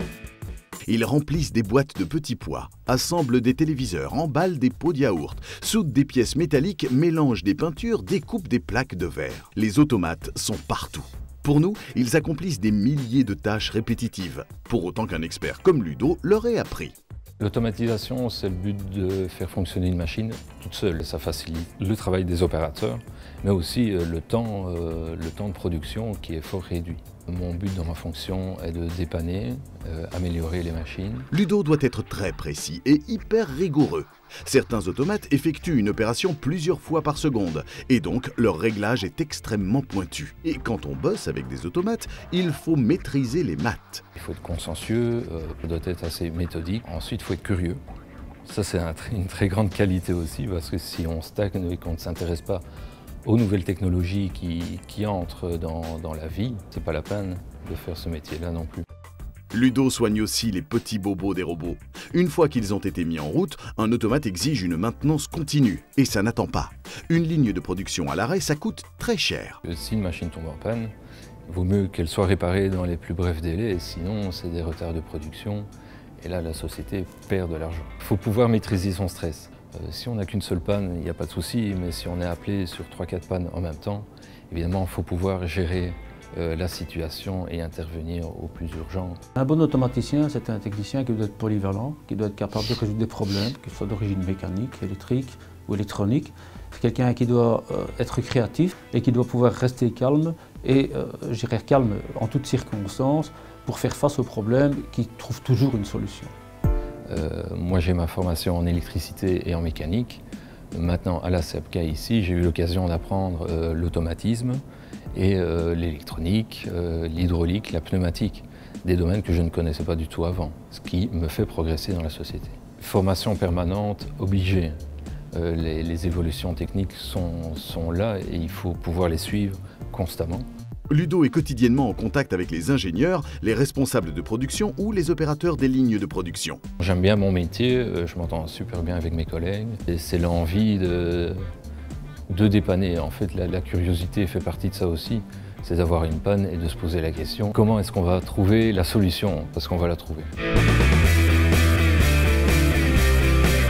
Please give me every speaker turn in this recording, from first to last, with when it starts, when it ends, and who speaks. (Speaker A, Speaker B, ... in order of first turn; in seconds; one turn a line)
Speaker A: 0.9-16.9
Speaker B: 17.4-31.3
Speaker A: 31.3-44.0
Speaker B: 44.2-47.8
Speaker B: 48.5-52.6
Speaker B: 53.2-58.9
Speaker A: 59.5-69.6
Speaker B: 69.7-70.9
Speaker B: 71.5-75.7
Speaker B: 76.2-89.2
Speaker C: 89.4-106.3
Speaker B: 107.1-110.2
Speaker B: 110.7-114.6
Speaker B: 115.1-124.8
Speaker B: 125.3-130.5
Speaker A: 130.9-136.6
Speaker B: 136.8-141.5
Speaker B: 142.3-150.3